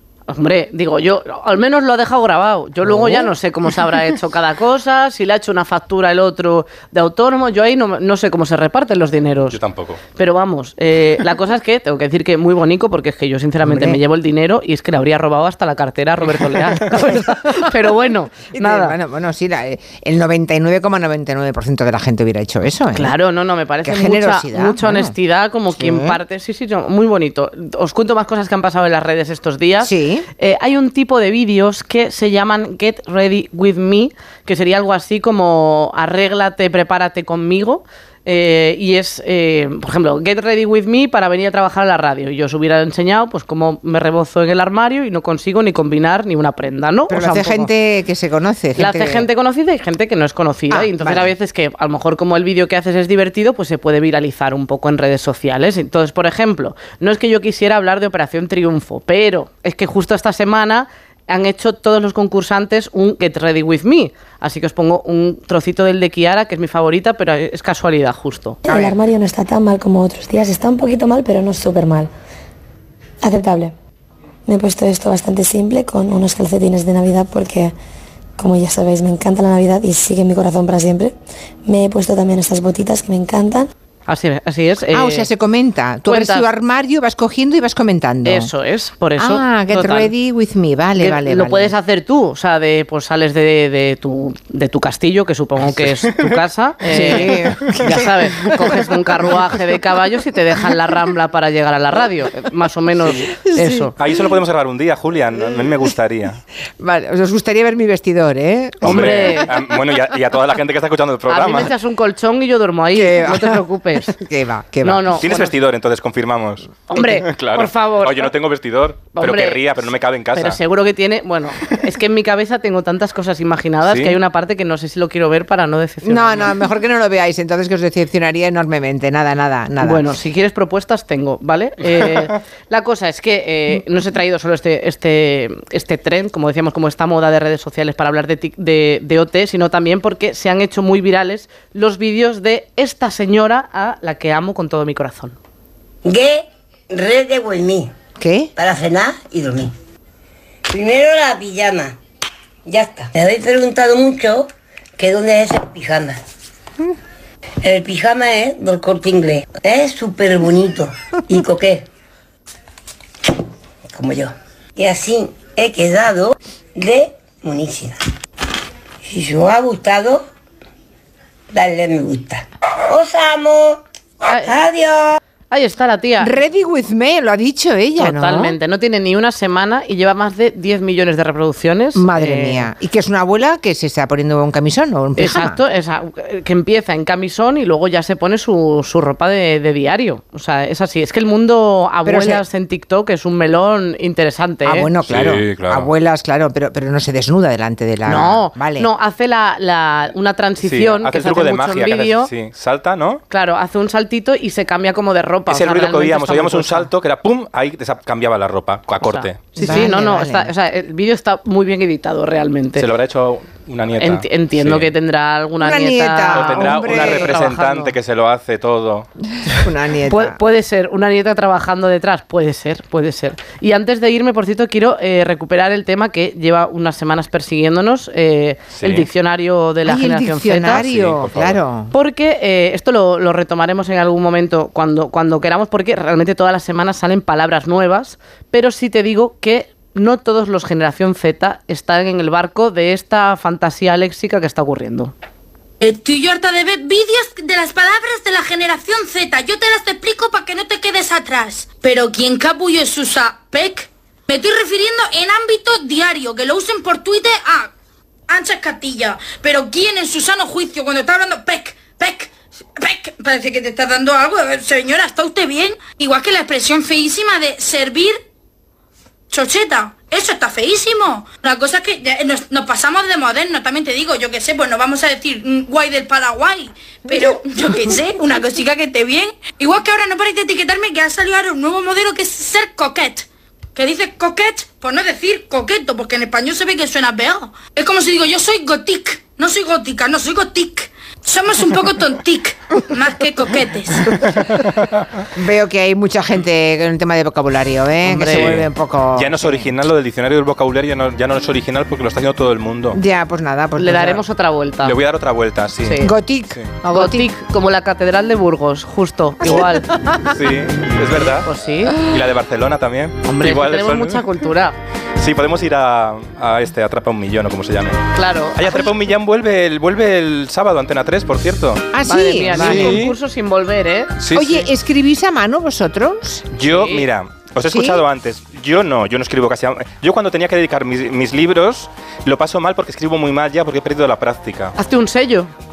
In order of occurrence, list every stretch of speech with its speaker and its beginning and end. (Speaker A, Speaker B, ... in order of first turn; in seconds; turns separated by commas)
Speaker A: 0.3-9.6, Speaker B: 2.8-3.3, Speaker C: 9.5-10.0, Speaker A: 10.2-19.0, Speaker B: 13.6-14.0, Speaker B: 18.5-23.1, Speaker A: 22.9-47.7, Speaker B: 23.8-25.1, Speaker B: 25.7-26.2, Speaker B: 29.8-30.3, Speaker B: 47.1-49.3, Speaker A: 48.8-68.6, Speaker B: 50.7-51.3, Speaker D: 68.7-72.1, Speaker B: 68.7-69.0, Speaker D: 73.2-73.7, Speaker D: 74.5-77.7, Speaker D: 78.4-81.1, Speaker D: 81.7-83.7, Speaker A: 84.1-85.3, Speaker B: 84.9-88.5, Speaker A: 86.1-86.5, Speaker A: 88.2-90.1, Speaker B: 89.2-91.8, Speaker A: 91.0-103.9, Speaker B: 96.9-98.8, Speaker C: 97.0-97.3, Speaker B: 103.3-103.9, Speaker C: 104.0-106.4, Speaker B: 106.8-109.7, Speaker C: 108.8-111.7, Speaker A: 108.8-109.5, Speaker A: 111.3-114.1, Speaker B: 112.9-115.2, Speaker A: 114.8-115.6, Speaker C: 115.2-120.6, Speaker A: 116.9-118.3, Speaker A: 119.1-126.6, Speaker C: 123.8-124.2, Speaker B: 126.0-130.1, Speaker A: 129.8-145.4, Speaker E: 146.1-147.9, Speaker B: 148.2-148.5, Speaker E: 148.6-149.7, Speaker E: 150.7-151.9, Speaker E: 152.7-154.5, Speaker E: 155.0-156.2, Speaker E: 157.6-161.8, Speaker E: 163.9-167.9, Speaker E: 169.1-170.2, Speaker E: 171.5-173.8, Speaker A: 174.3-174.6, Speaker E: 174.4-175.2, Speaker A: 175.5-176.3, Speaker B: 176.2-178.6, Speaker A: 178.0-182.7, Speaker B: 181.9-185.6, Speaker A: 185.2-194.9, Speaker B: 192.1-192.4, Speaker B: 194.7-198.9, Speaker C: 195.1-195.9, Speaker A: 198.1-202.3, Speaker C: 200.6-203.2, Speaker A: 203.3-206.9, Speaker C: 205.5-209.9, Speaker A: 209.0-212.9, Speaker B: 209.6-210.5, Speaker C: 212.8-214.9, Speaker A: 214.0-217.6, Speaker B: 215.6-217.9, Speaker C: 216.3-219.1, Speaker B: 219.4-220.4, Speaker A: 220.1-230.8, Speaker C: 228.8-229.1, Speaker B: 229.8-231.9, Speaker C: 230.7-231.6, Speaker A: 231.9-245.1, Speaker F: 245.8-257.7, Speaker F: 258.3-268.2, Speaker F: 269.3-294.1, Speaker B: 295.4-299.7, Speaker A: 298.1-298.6, Speaker C: 298.2-303.0, Speaker B: 302.9-304.2, Speaker A: 303.8-304.9, Speaker C: 304.8-306.7, Speaker A: 305.8-306.1, Speaker B: 306.0-307.3, Speaker A: 306.9-309.9, Speaker B: 309.4-310.1, Speaker C: 310.3-311.5, Speaker A: 311.4-312.0, Speaker C: 312.0-314.2, Speaker A: 313.2-314.8, Speaker C: 315.2-318.0, Speaker A: 318.1-318.6, Speaker C: 318.6-321.9, Speaker B: 321.9-323.0, Speaker A: 322.1-324.1, Speaker C: 322.5-323.2, Speaker C: 324.2-324.7, Speaker B: 324.3-326.5, Speaker C: 326.5-334.8, Speaker A: 326.7-327.1, Speaker B: 327.7-328.0, Speaker A: 334.8-335.5